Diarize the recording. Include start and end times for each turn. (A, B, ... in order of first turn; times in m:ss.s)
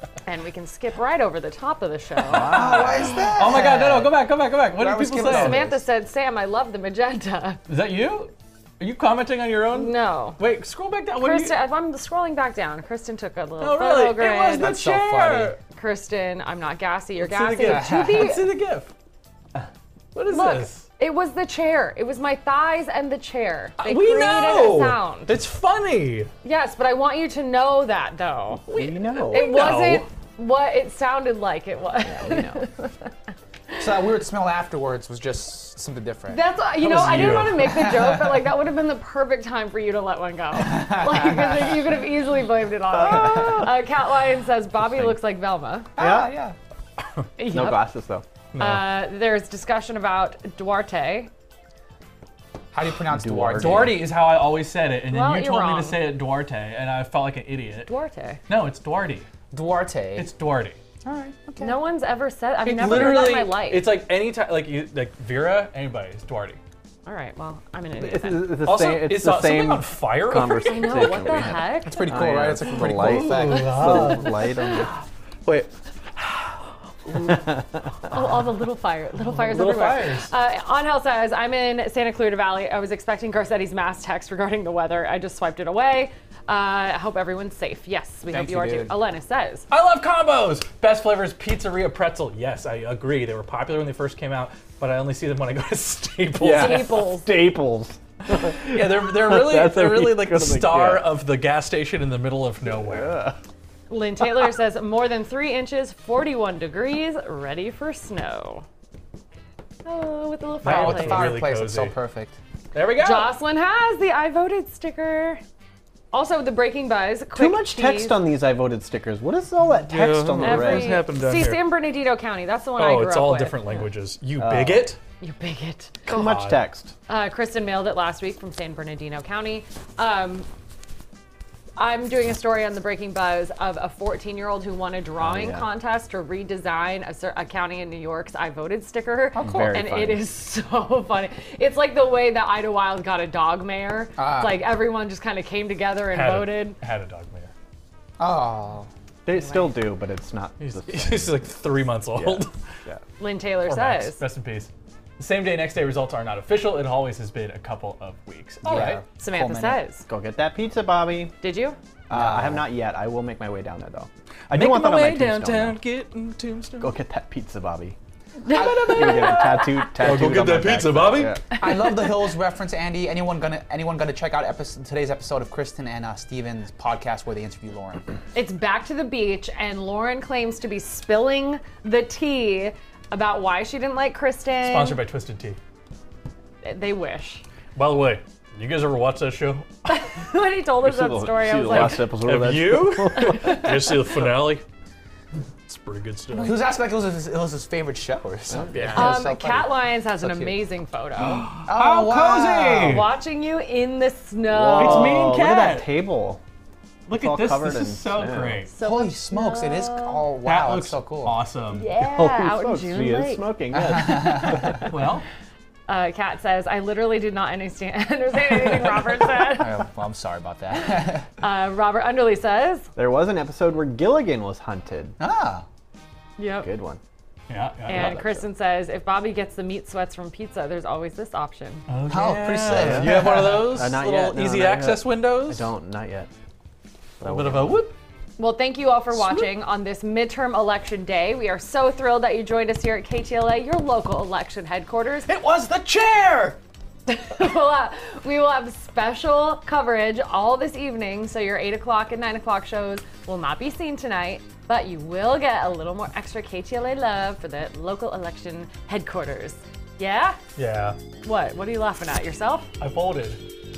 0:00.2-0:02.8 A
0:02.3-0:03.2 B
0:02.3-0:05.8 C
0:02.7-0:05.6 D
0:05.2-0:07.6 A
0:07.7-0:11.6 D
0:09.7-0:10.4 A
0:11.2-0:14.7 A
0:13.6-0:15.6 D
0:14.5-0:15.6 C
0:15.7-0:18.5 A
0:17.2-0:18.9 D
0:17.6-0:18.3 C
0:20.1-0:20.8 D
0:20.3-0:25.4 A
0:23.8-0:26.3 D
0:26.4-0:33.1 A
0:28.7-0:29.8 B
0:29.1-0:30.0 D
0:32.0-0:32.6 B
0:33.8-0:36.4 C
0:36.3-0:45.9 A
0:36.8-0:37.7 D
0:37.0-0:38.4 C
0:40.7-0:41.6 C
0:43.0-0:43.7 C
0:43.2-0:43.5 B
0:46.0-0:46.5 C
0:46.0-0:46.4 B
0:47.4-0:47.8 A
0:47.5-0:48.2 B
0:48.5-0:48.9 D
0:48.6-0:51.3 A
0:52.7-0:54.0 C
0:53.1-0:54.1 B
0:53.6-0:57.9 D
0:55.1-0:56.1 A
0:57.9-0:58.4 A
0:58.5-0:59.3 D
0:59.5-1:00.3 C
1:00.2-1:00.8 D
1:01.0-1:01.8 C
1:01.6-1:04.0 A
1:02.6-1:06.6 D
1:07.0-1:08.6 A
1:07.9-1:14.9 B
1:08.6-1:11.1 D
1:10.4-1:12.1 A
1:11.8-1:14.0 C
1:12.8-1:14.6 D
1:17.1-1:18.2 B
1:18.1-1:29.7 A
1:19.2-1:20.3 D
1:28.3-1:28.9 C
1:29.7-1:36.9 D
1:36.4-1:41.2 B
1:36.4-1:37.4 A
1:38.4-1:43.2 D
1:42.7-1:43.4 B
1:43.9-1:48.6 A
1:49.8-1:51.3 A
1:50.6-1:51.9 D
1:50.6-1:52.4 C
1:52.7-1:53.3 D
1:53.0-1:55.4 A
1:56.1-1:58.2 A
1:57.3-2:01.0 B
1:59.9-2:01.6 D
2:00.4-2:03.5 A
2:02.8-2:05.0 D
2:04.4-2:04.9 B
2:05.2-2:06.1 A
2:06.1-2:06.9 B
2:06.1-2:06.6 D
2:07.1-2:10.4 A
2:11.8-2:26.8 A
2:15.2-2:15.6 B
2:19.3-2:19.9 C
2:19.4-2:20.2 B
2:24.2-2:24.7 C
2:26.1-2:27.5 D
2:28.2-2:28.9 C
2:29.2-2:31.5 B
2:29.3-2:29.8 A
2:30.6-2:32.5 D
2:32.1-2:33.0 B
2:33.2-2:34.2 A
2:33.7-2:39.0 D
2:38.6-2:39.8 C
2:38.7-2:39.0 B
2:39.2-2:40.0 A
2:40.1-2:41.4 B
2:41.4-2:41.8 A
2:42.1-2:42.7 C
2:42.1-2:45.8 B
2:44.5-2:46.9 D
2:46.8-2:48.0 B
2:48.4-2:51.6 D
2:48.5-2:48.9 C
2:48.5-2:51.6 B
2:48.9-2:49.7 A
2:51.6-2:58.1 C
2:58.3-3:05.0 A
3:04.6-3:05.6 D
3:06.6-3:07.4 A
3:07.8-3:09.7 D
3:09.9-3:12.1 A
3:10.8-3:13.8 B
3:11.7-3:14.6 D
3:13.2-3:13.6 A
3:15.7-3:16.6 D
3:16.3-3:20.6 C
3:18.5-3:19.1 B
3:18.7-3:19.1 D
3:18.9-3:21.4 A
3:21.2-3:23.1 D
3:21.5-3:23.1 C
3:22.9-3:25.2 A
3:24.5-3:26.4 B
3:24.7-3:25.9 D
3:27.1-3:28.7 D
3:27.1-3:28.6 B
3:28.7-3:30.2 A
3:28.8-3:31.4 C
3:30.4-3:31.9 D
3:31.7-3:33.4 A
3:32.0-3:34.9 B
3:33.9-3:34.6 C
3:34.8-3:35.2 D
3:35.9-3:39.8 A
3:39.5-3:41.3 C
3:40.7-3:42.9 A
3:43.0-3:45.1 B
3:45.2-3:45.6 C
3:46.4-3:46.7 A
3:46.6-3:47.0 B
3:47.5-3:48.1 D
3:47.9-3:48.4 B
3:47.9-3:51.8 A
3:51.9-3:55.7 D
3:52.1-3:53.5 C
3:52.7-3:56.3 B
3:57.2-3:57.8 B
3:57.2-3:57.9 D
3:58.4-4:05.3 A
3:59.1-3:59.5 D
4:05.3-4:06.6 D
4:07.1-4:20.4 A
4:20.6-4:21.0 D
4:21.2-4:22.7 A
4:22.8-4:23.4 D